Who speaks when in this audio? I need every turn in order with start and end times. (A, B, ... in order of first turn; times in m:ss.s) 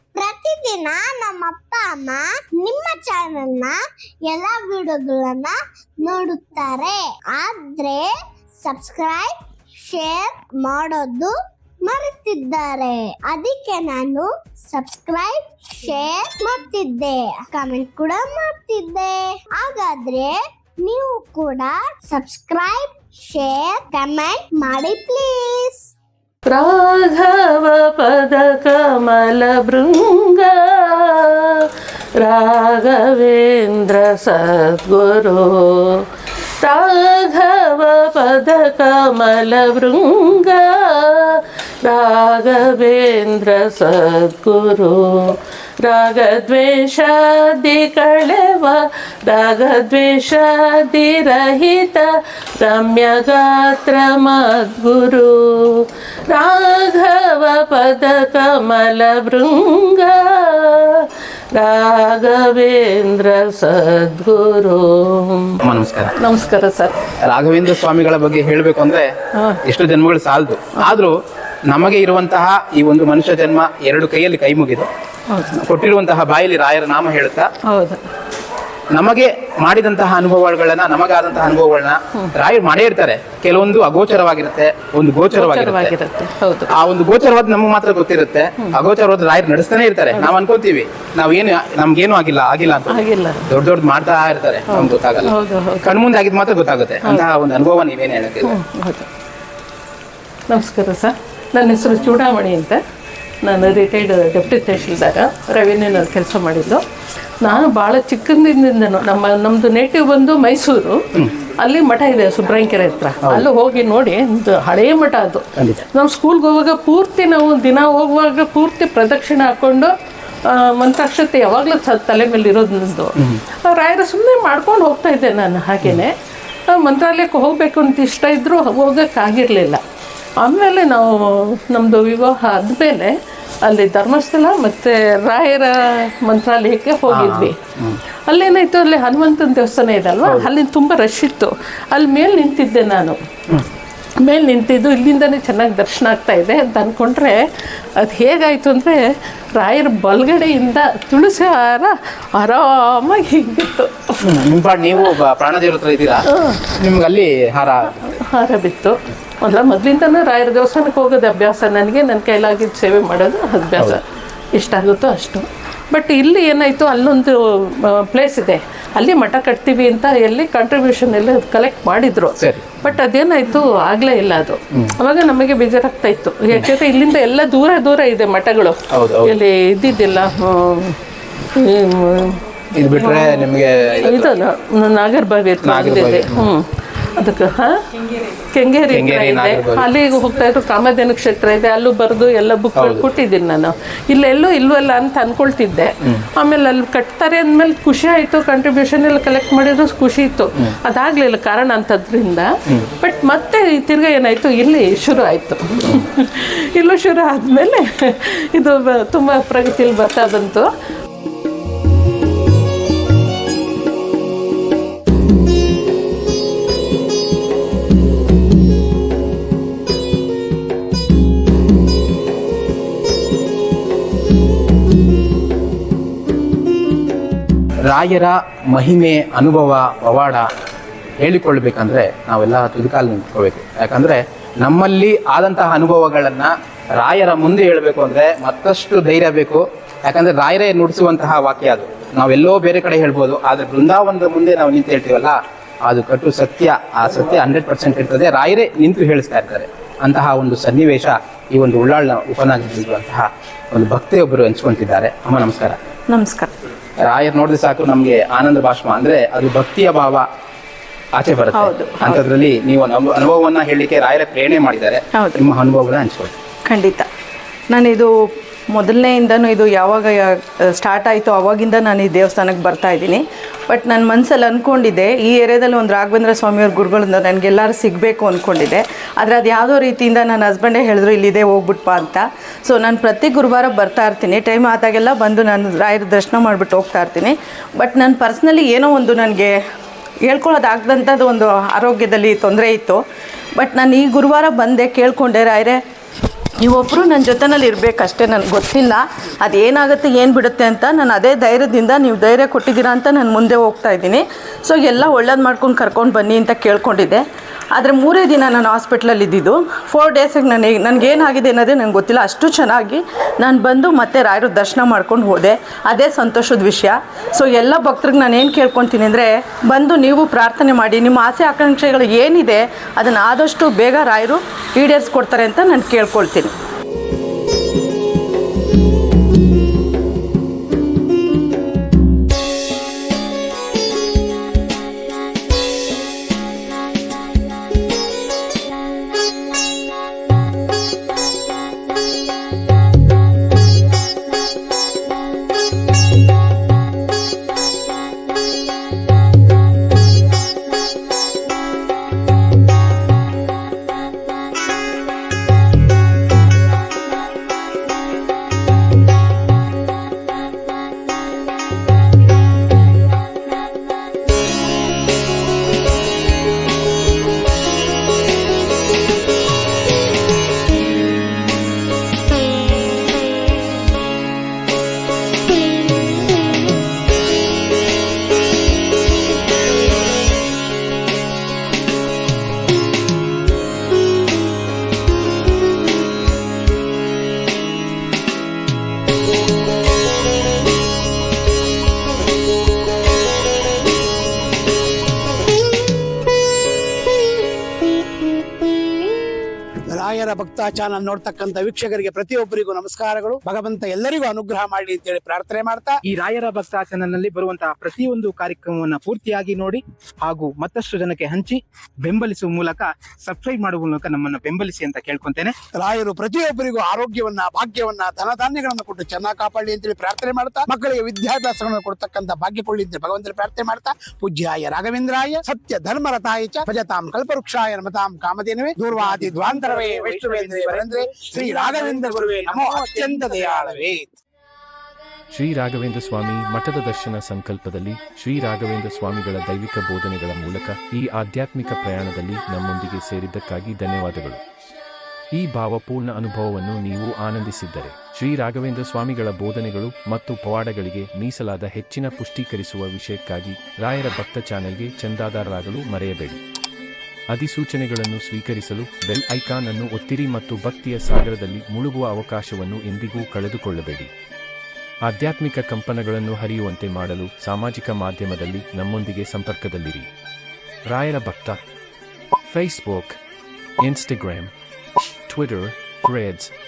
0:00.1-0:25.9 A
0:26.5-0:31.7 B
0:32.2-0:36.0 B
0:36.6-1:05.6 B
1:05.6-1:06.1 C
1:06.2-1:06.9 B
1:07.2-1:09.1 C
1:09.6-1:11.1 C
1:11.7-1:14.9 C
1:15.6-1:17.5 C
1:17.7-1:18.1 B
1:18.9-1:25.9 C
1:25.3-1:26.7 B
1:26.7-1:35.3 C
1:32.9-1:33.4 B
1:34.7-1:35.9 B
1:35.8-1:38.5 C
1:38.4-1:39.1 B
1:40.5-1:42.8 B
1:43.4-1:46.8 B
1:47.4-1:51.0 B
1:51.6-1:59.9 B
2:00.5-2:06.1 B
2:06.7-2:09.8 B
2:10.4-2:13.1 B
2:13.6-2:17.5 B
2:17.1-2:18.0 C
2:18.3-2:23.2 B
2:24.2-2:27.4 B
2:28.0-2:34.0 B
2:34.2-2:36.2 C
2:36.3-2:36.6 B
2:36.7-2:38.0 C
2:38.0-2:44.0 B
2:44.5-3:01.0 B
2:52.4-2:52.8 C
2:58.9-2:59.3 C
3:01.5-3:02.4 B
3:02.8-3:04.3 C
3:02.9-3:03.5 B
3:04.0-3:06.6 B
3:05.6-3:06.5 C
3:07.2-3:07.8 B
3:08.4-3:30.7 B
3:08.9-3:09.8 C
3:12.8-3:13.0 C
3:47.9-3:50.5 C
3:51.2-4:15.8 C
4:16.1-4:16.5 D
4:17.0-4:20.2 C
4:21.1-4:26.3 C
4:21.5-4:22.2 D
4:25.1-4:25.4 D
4:26.6-4:27.1 D
4:27.7-4:28.1 D
4:28.7-4:49.5 D
4:50.2-4:53.0 D
4:53.6-4:55.8 D
4:56.6-5:26.5 D
6:39.9-6:46.0 E
6:46.0-6:55.5 C
6:55.7-7:14.2 E
7:15.3-7:24.4 F
7:25.3-7:36.4 F
7:37.3-7:44.1 F
7:45.0-7:50.1 F
7:50.9-7:51.6 F
7:52.4-7:53.2 F
7:53.8-7:54.5 F
7:55.3-7:56.5 F